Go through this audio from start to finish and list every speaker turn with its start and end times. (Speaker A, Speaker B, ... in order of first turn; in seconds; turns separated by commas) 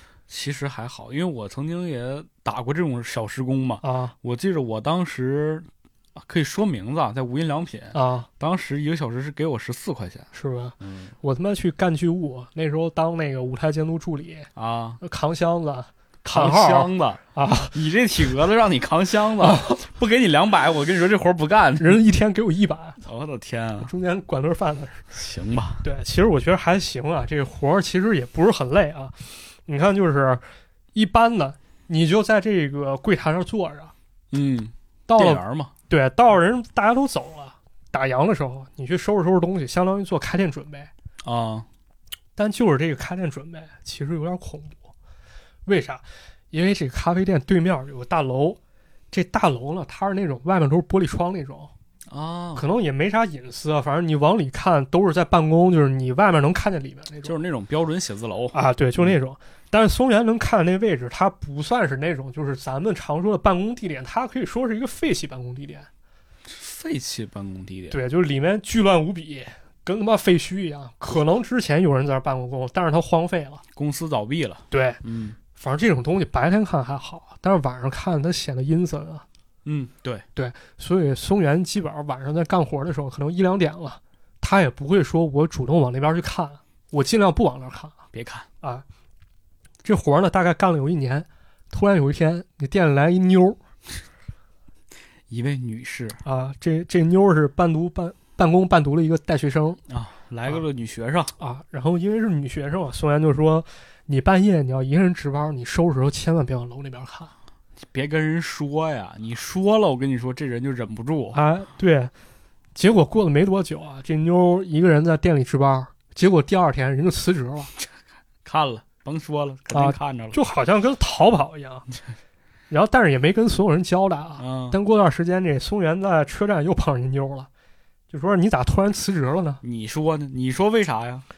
Speaker A: 0.3-10.3, Speaker B: 3.8-4.1, Speaker B: 7.9-8.3, Speaker B: 10.3-14.5, Speaker A: 10.8-11.1, Speaker A: 14.6-15.0, Speaker B: 15.0-17.8, Speaker A: 16.2-22.0, Speaker B: 19.4-19.8, Speaker B: 21.8-23.0, Speaker A: 23.0-23.9, Speaker B: 23.8-25.1, Speaker A: 25.1-25.8, Speaker B: 25.8-30.4, Speaker B: 30.9-33.9, Speaker A: 34.3-35.7, Speaker B: 35.1-40.9, Speaker A: 41.2-41.7, Speaker B: 42.4-44.9, Speaker B: 45.7-48.6, Speaker B: 49.1-51.7, Speaker A: 52.1-52.7, Speaker B: 52.5-57.4, Speaker A: 57.2-59.1, Speaker B: 58.5-65.9, Speaker A: 66.5-68.0, Speaker B: 67.9-73.6, Speaker A: 73.8-75.4, Speaker B: 74.7-75.0, Speaker B: 75.5-79.2, Speaker A: 79.7-80.3, Speaker B: 80.4-88.0, Speaker A: 88.1-88.5, Speaker B: 89.8-93.6, Speaker A: 95.3-96.2, Speaker B: 96.2-99.8, Speaker A: 99.9-101.3, Speaker B: 101.4-107.3, Speaker A: 107.8-111.4, Speaker B: 111.3-112.1, Speaker B: 112.8-117.7, Speaker A: 118.4-120.4, Speaker B: 119.7-121.9, Speaker B: 122.7-127.5, Speaker A: 124.4-124.8, Speaker B: 128.1-129.6, Speaker A: 129.6-131.3